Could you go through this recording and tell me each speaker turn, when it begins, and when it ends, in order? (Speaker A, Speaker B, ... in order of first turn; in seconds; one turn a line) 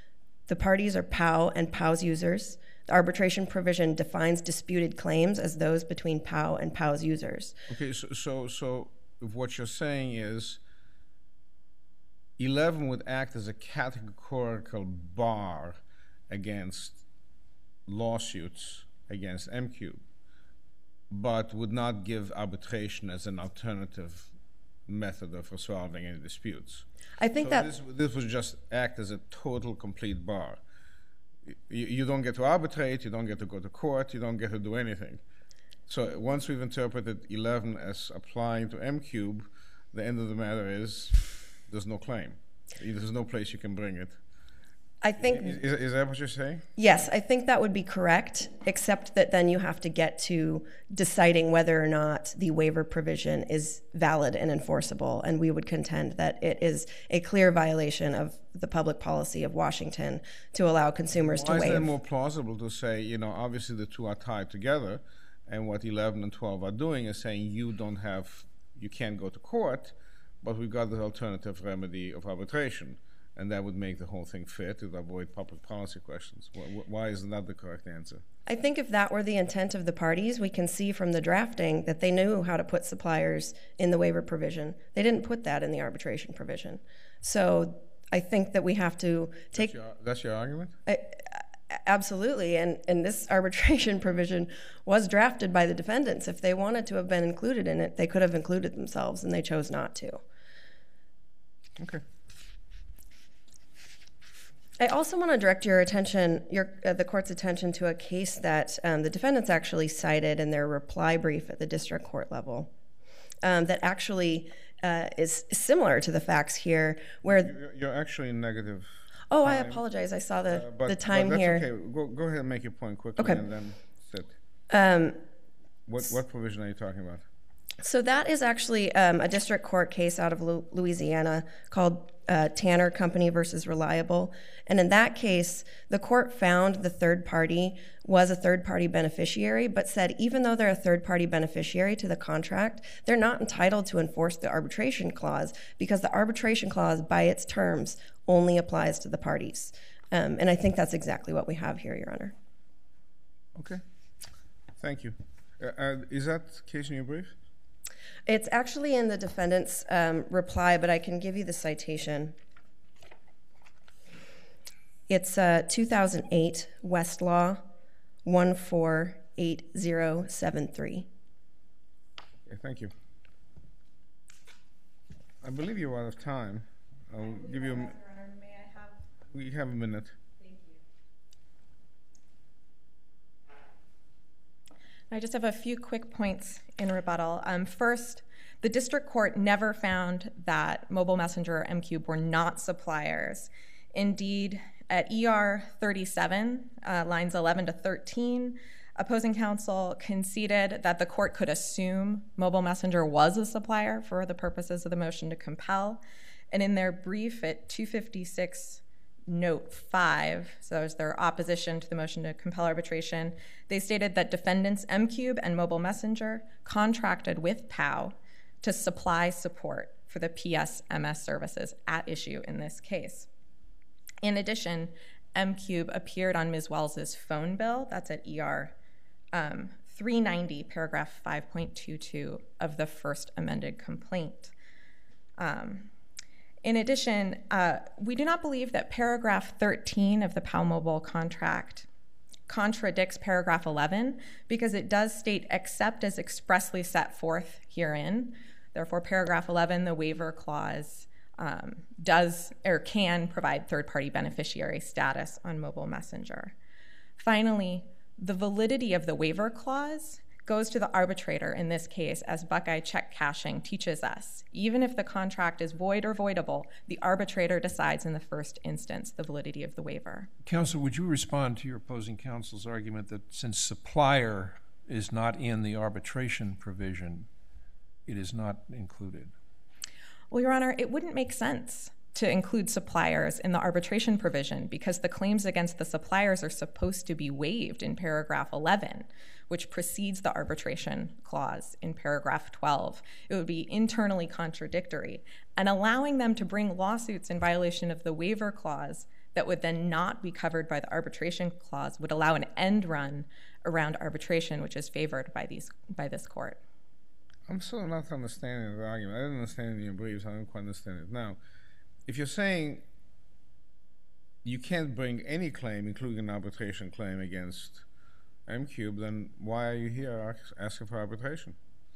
Speaker A: 0.5-7.6
Speaker B: 7.7-10.6
Speaker B: 12.4-17.0
Speaker B: 17.9-20.0
Speaker B: 21.1-24.3
Speaker B: 24.9-26.9
Speaker A: 27.2-27.7
Speaker B: 27.4-30.6
Speaker B: 31.5-35.2
Speaker B: 35.9-44.2
Speaker A: 45.0-45.6
Speaker B: 45.2-46.6
Speaker A: 46.8-61.9
Speaker B: 61.2-78.2
Speaker A: 78.5-89.7
Speaker B: 89.5-90.8
Speaker A: 90.9-100.2
Speaker A: 104.8-112.7
Speaker A: 113.4-117.5
Speaker B: 117.3-119.8
Speaker A: 119.3-121.7
Speaker B: 120.5-124.4
Speaker A: 124.7-125.2
Speaker B: 125.9-127.2
Speaker A: 127.8-152.3
Speaker B: 153.6-153.8
Speaker B: 154.8-157.3
Speaker A: 158.3-162.4
Speaker A: 165.1-167.7
Speaker A: 168.2-171.1
Speaker B: 172.5-172.9
Speaker B: 175.4-178.0
Speaker C: 177.7-178.9
Speaker B: 179.3-180.2
Speaker C: 185.1-206.0
Speaker C: 206.5-223.3
Speaker C: 224.2-228.7
Speaker C: 229.3-234.5
Speaker C: 235.4-235.9
Speaker C: 236.6-241.9
Speaker C: 242.5-256.6
Speaker C: 257.2-270.3
Speaker D: 270.4-277.3
Speaker D: 278.1-279.3
Speaker C: 280.3-306.6
Speaker B: 307.5-311.4
Speaker B: 312.1-312.8
Speaker B: 314.4-317.9
Speaker B: 318.5-321.6